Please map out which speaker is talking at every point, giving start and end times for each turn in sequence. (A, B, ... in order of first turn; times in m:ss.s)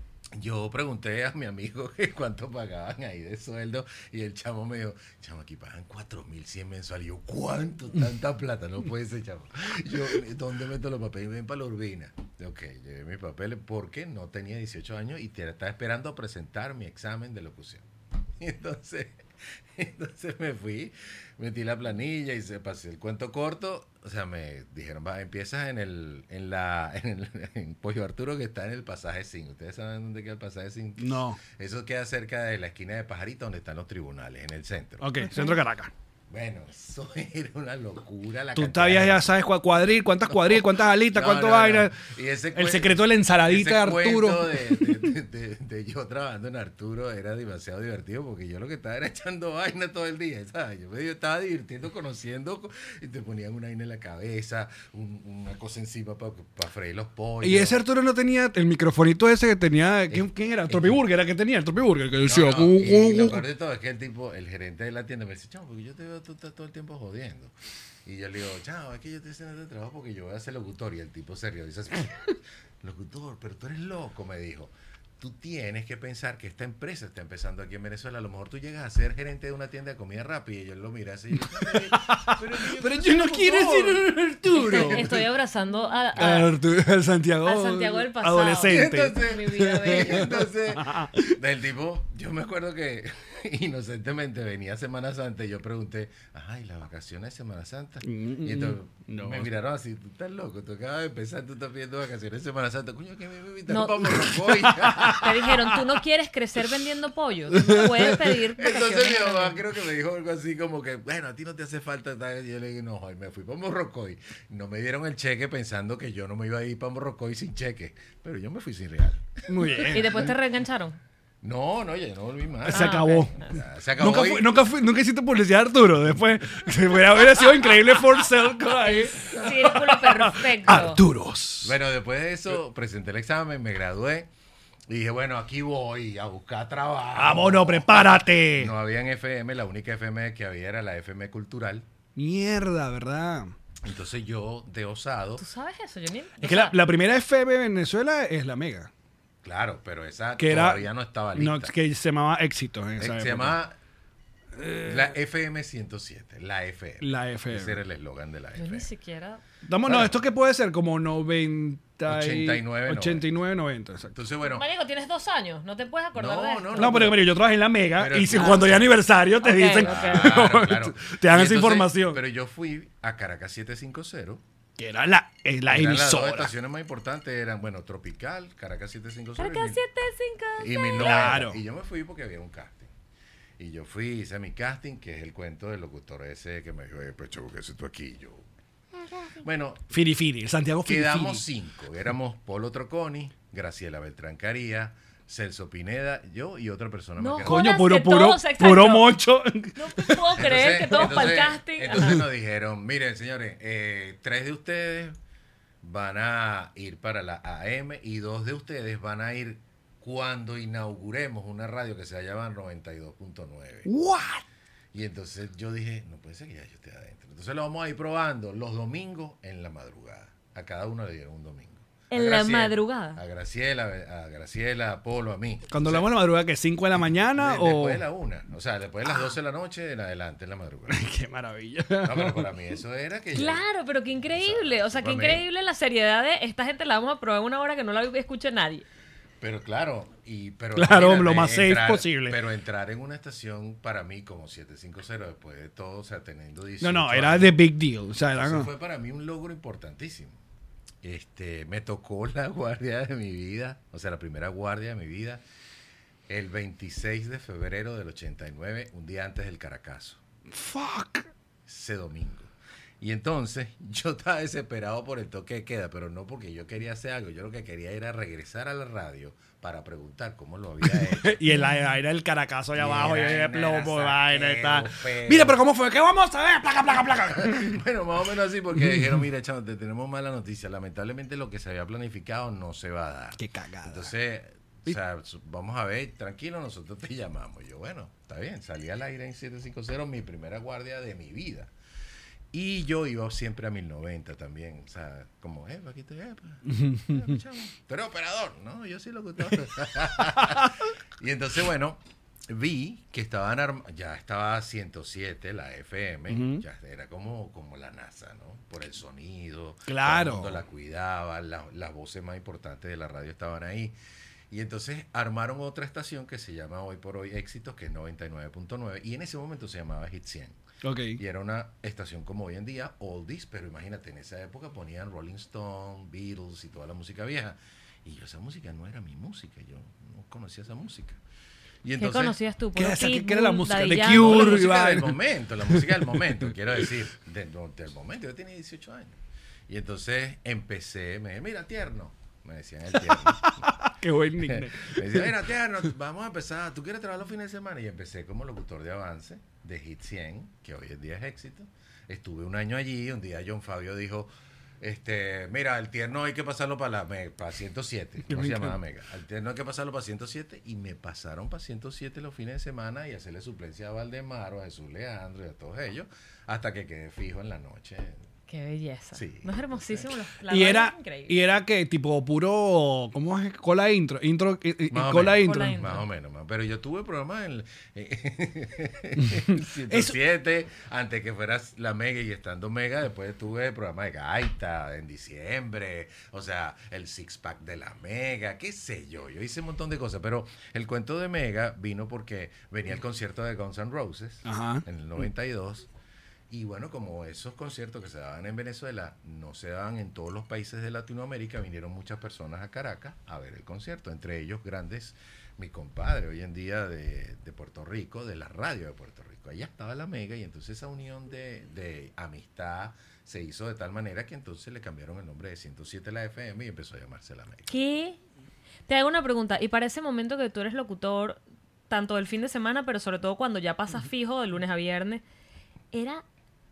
0:00.3-0:17.8 A
0:18.4-0:35.2 A
0:31.0-0:31.4 B
0:35.0-0:35.9 B
0:36.3-0:39.3 A
0:38.5-0:42.0 B
0:40.3-0:57.8 A
0:42.5-0:44.9 B
0:57.4-1:03.4 B
1:00.1-1:01.0 A
1:02.2-1:07.5 A
1:08.0-1:25.2 A
1:21.6-1:25.2 B
1:24.6-1:26.5 C
1:26.2-1:31.3 B
1:27.4-1:30.3 C
1:28.6-1:45.5 A
1:38.0-1:39.5 B
1:43.7-1:44.0 C
1:45.2-1:49.6 C
1:48.6-2:00.3 A
1:59.5-2:00.3 B
1:59.9-2:01.0 C
2:01.4-2:04.5 A
2:02.6-2:03.3 B
2:02.7-2:03.3 C
2:04.0-2:09.2 B
2:08.9-2:11.0 C
2:09.4-2:09.7 A
2:09.9-2:11.7 B
2:11.6-2:14.3 A
2:14.9-2:21.9 A
2:17.2-2:18.7 B
2:22.2-2:23.5 B
2:23.8-2:25.4 A
2:25.4-2:26.8 C
2:26.4-2:28.9 B
2:29.4-2:31.7 A
2:30.4-2:33.6 B
2:33.0-2:33.8 A
2:34.6-2:35.1 B
2:34.8-2:38.9 A
2:37.0-2:37.8 B
2:38.6-2:39.4 C
2:39.6-2:44.1 B
2:39.8-2:40.2 A
2:42.1-2:43.3 A
2:44.1-2:44.6 A
2:44.4-2:47.1 C
2:46.1-2:47.2 A
2:46.8-2:52.2 B
2:48.0-2:48.9 A
2:48.4-2:48.6 C
2:49.4-2:50.3 C
2:49.8-2:54.4 A
2:54.8-2:56.5 B
2:55.7-2:59.8 A
2:59.4-3:01.3 C
3:00.6-3:02.9 A
3:01.0-3:01.6 B
3:03.6-3:08.4 A
3:09.4-3:09.9 A
3:09.9-3:11.4 B
3:10.8-3:17.7 A
3:17.2-3:19.2 C
3:17.4-3:20.4 B
3:19.8-3:22.2 C
3:20.4-3:25.2 A
3:25.8-3:33.9 A
3:33.8-3:34.4 B
3:34.9-3:46.1 A
3:42.1-3:43.2 C
3:45.7-3:48.0 B
3:47.4-3:51.0 A
3:50.9-3:52.5 B
3:52.0-3:53.6 A
3:53.3-3:58.8 C
3:54.3-3:55.4 A
3:59.4-4:07.6 A
4:00.8-4:02.4 B
4:06.8-4:08.7 B
4:08.3-4:10.4 A
4:11.0-4:15.4 A
4:16.3-4:20.2 A
4:20.5-4:21.3 B
4:21.6-4:31.6 A
4:30.9-4:37.8 B
4:32.7-4:35.6 A
4:37.3-4:51.7 A
4:43.4-4:44.1 B
4:52.5-5:13.9 A
4:56.7-4:57.3 B
5:00.4-5:00.7 B
5:06.3-5:06.6 B
5:09.9-5:10.6 B
5:14.5-5:20.6 A
5:20.8-5:21.2 B
5:21.2-5:31.2 A
5:31.8-5:32.4 A
5:32.0-5:34.6 C
5:32.7-5:35.2 B
5:34.1-5:43.6 A
5:43.1-5:45.3 B
5:44.4-6:08.2 A
5:58.3-5:58.7 B
6:08.5-6:11.4 C
6:09.1-6:10.1 A
6:10.5-6:15.8 B
6:14.9-6:35.9 A
6:15.4-6:16.0 C
6:19.3-6:20.1 B
6:34.4-6:34.8 B
6:36.5-6:57.7 A
6:57.7-6:58.2 C
6:58.9-7:05.2 C
7:05.9-7:06.2 C